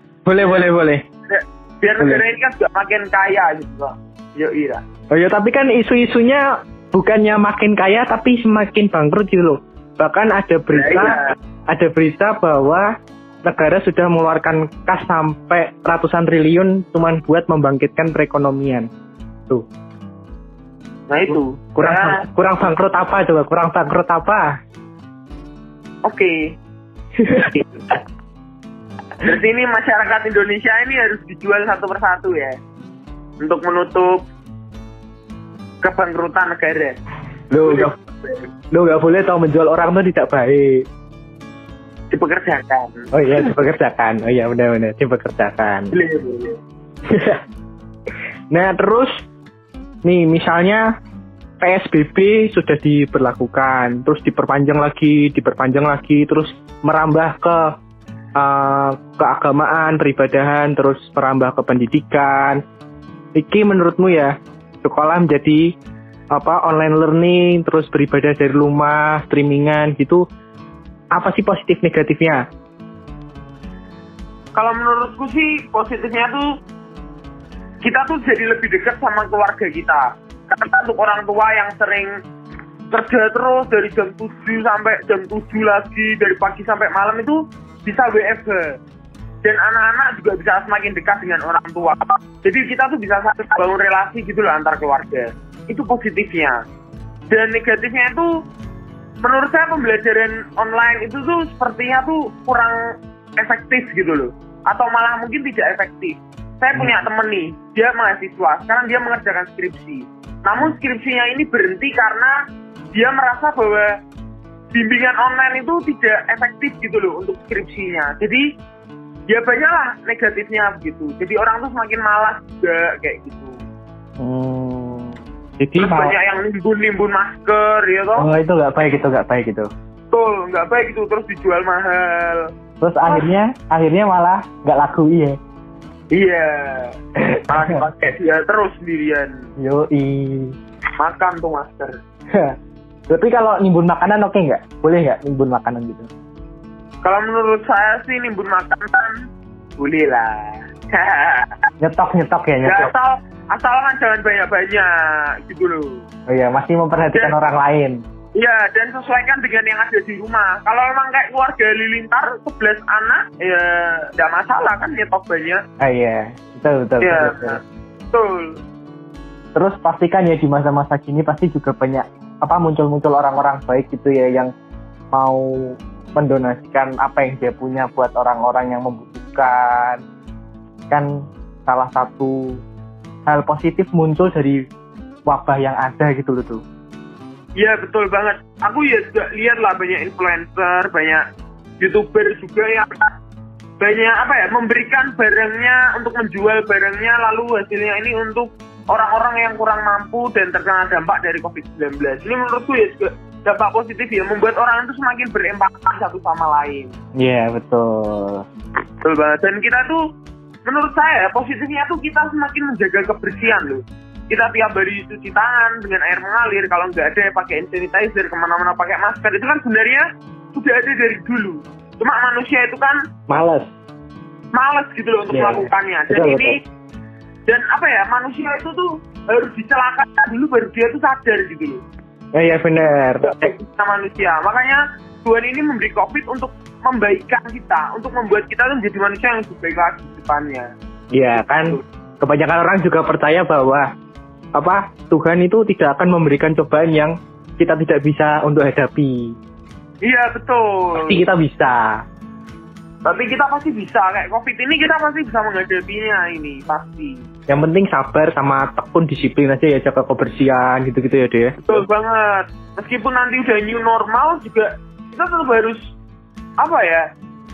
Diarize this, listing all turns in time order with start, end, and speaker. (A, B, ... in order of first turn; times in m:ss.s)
0:00.3-0:01.0 A
0:00.4-0:00.7 B
0:01.3-0:04.8 B
0:02.0-0:02.2 A
0:05.1-0:12.9 A
0:10.7-0:11.3 B
0:13.4-0:18.9 A
0:21.1-0:22.2 B
0:21.8-0:24.6 A
0:26.0-0:26.4 B
0:27.2-0:27.5 A
0:29.2-0:32.6 B
0:33.4-0:34.2 B
0:35.8-0:37.0 B
0:37.5-0:37.9 A
0:37.6-0:38.5 B
0:38.7-0:40.9 A
0:42.1-0:43.1 B
0:43.1-0:45.9 A
0:45.9-0:46.6 B
0:47.1-0:47.4 A
0:48.5-0:49.1 A
0:50.0-0:50.9 A
0:51.6-0:57.8 A
0:58.4-1:02.6 A
1:03.4-1:05.8 A
1:06.3-1:10.2 A
1:11.1-1:12.4 A
1:14.6-1:16.5 B
1:17.8-1:22.1 B
1:22.9-1:28.6 B
1:29.4-1:36.6 B
1:37.3-1:38.3 B
1:39.2-1:42.8 B
1:43.4-1:52.3 B
1:52.9-1:53.9 B
1:54.7-1:58.4 B
1:59.3-2:03.6 B
2:04.2-2:06.1 A
2:05.8-2:08.3 B
2:08.2-2:09.7 A
2:10.1-2:12.5 B
2:12.8-2:15.4 A
2:16.1-2:17.0 B
2:17.2-2:17.8 A
2:17.5-2:19.4 B
2:19.6-2:20.6 A
2:21.0-2:22.0 B
2:23.1-2:26.1 A
2:27.0-2:29.1 B
2:29.8-2:31.6 B
2:31.8-2:32.9 A
2:32.6-2:36.0 B
2:36.3-2:38.0 A
2:37.1-2:37.4 B
2:38.4-2:45.6 B
2:45.8-2:47.6 A
2:47.0-2:47.6 B
2:48.1-2:48.6 B
2:49.6-2:54.5 A
2:55.1-3:00.0 A
3:00.9-3:02.6 A
3:03.3-3:04.6 A
3:05.3-3:06.6 A
3:07.6-3:11.2 B
3:11.8-3:13.1 B
3:13.8-3:27.0 B
3:27.2-3:28.4 A
3:29.0-3:30.0 B
3:30.6-3:43.0 B
3:43.3-3:43.7 A
3:44.5-3:46.6 B
3:45.3-3:46.6 A
3:47.5-3:51.8 B
3:52.4-3:53.5 A
3:53.2-4:00.7 B
4:01.1-4:03.9 A
4:01.3-4:01.8 B
4:04.6-4:09.4 A
4:10.0-4:11.2 B
4:10.9-4:12.0 A
4:13.0-4:17.2 B
4:17.5-4:21.6 A
4:21.6-4:25.8 B
4:26.6-4:27.0 B